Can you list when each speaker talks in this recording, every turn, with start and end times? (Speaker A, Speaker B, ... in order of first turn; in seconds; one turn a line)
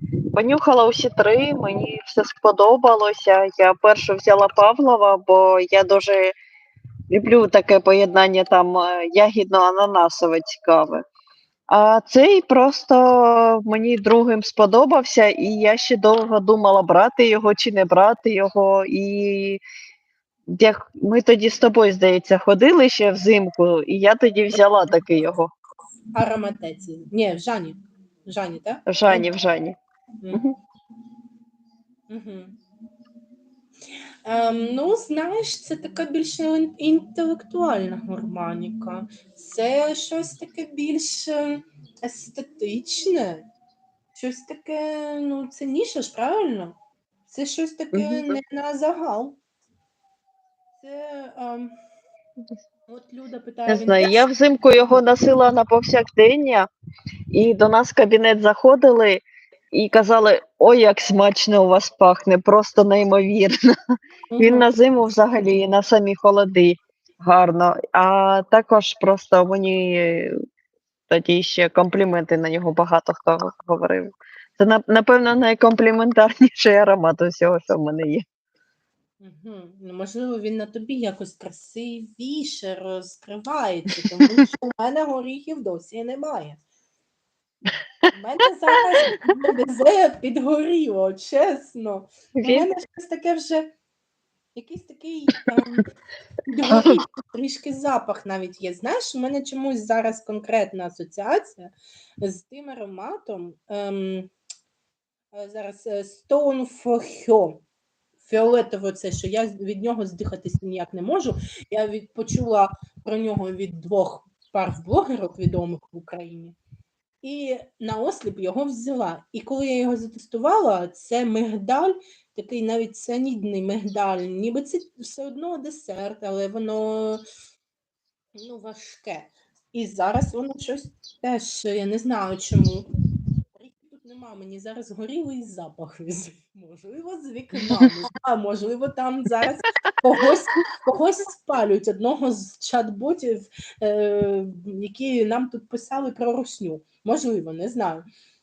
Speaker A: 0.3-6.3
Speaker A: 7.1-11.0
Speaker A: 11.7-19.6
Speaker A: 20.5-25.5
Speaker B: 26.1-29.3
Speaker A: 28.9-29.8
Speaker B: 32.1-32.6
Speaker B: 34.3-43.5
Speaker B: 44.1-46.8
Speaker B: 47.3-49.4
Speaker A: 47.9-48.3
Speaker B: 50.8-51.7
Speaker B: 52.9-54.3
Speaker A: 53.7-56.7
Speaker A: 57.3-63.6
Speaker B: 64.3-64.7
Speaker A: 64.4-70.3
Speaker A: 71.1-78.2
Speaker B: 79.2-86.6
Speaker B: 88.1-93.7
Speaker A: 92.3-92.7
Speaker B: 94.5-95.8
Speaker B: 96.5-104.3
Speaker B: 105.3-107.6
Speaker B: 108.2-116.6
Speaker B: 117.2-127.2
Speaker B: 128.3-132.9
Speaker B: 133.5-148.1